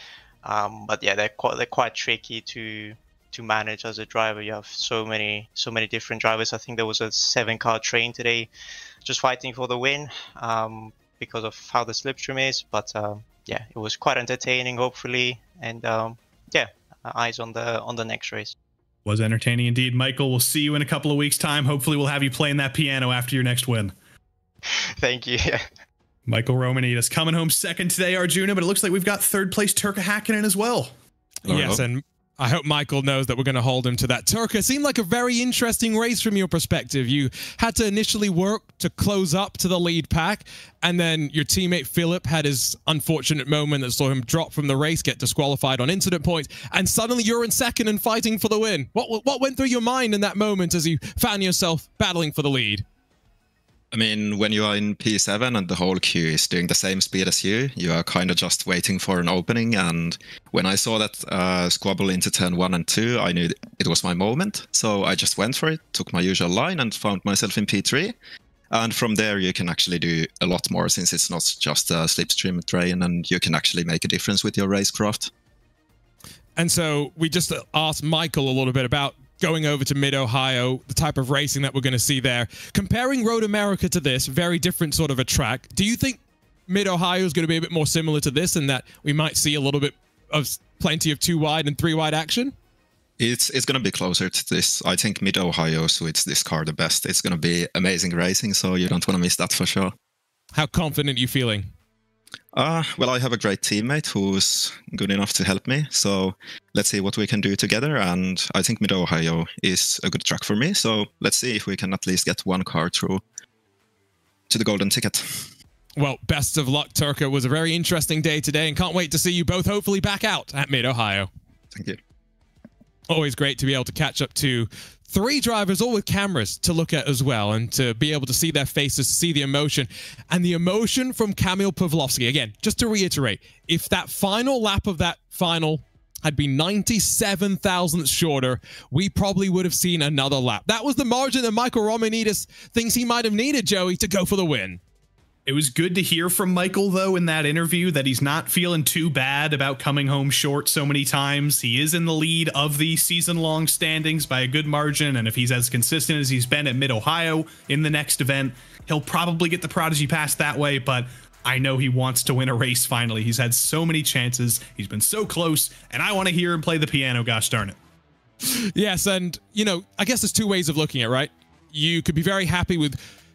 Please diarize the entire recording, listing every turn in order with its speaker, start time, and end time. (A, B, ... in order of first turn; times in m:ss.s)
0:00.4-0:08.5 A
0:09.0-0:18.5 A
0:19.0-0:23.9 B
0:24.6-0:25.7 A
0:26.3-0:30.9 B
0:31.4-0:52.8 C
0:31.5-0:31.8 D
0:53.9-1:08.2 D
1:08.7-1:15.3 D
1:16.6-1:32.5 C
1:33.2-1:39.9 D
1:40.5-1:41.7 C
1:42.5-1:53.2 D
1:54.5-1:55.5 D
1:56.0-2:01.3 C
2:01.7-2:02.0 D
2:03.1-2:24.8 C
2:25.4-2:47.8 B
2:48.5-2:53.0 C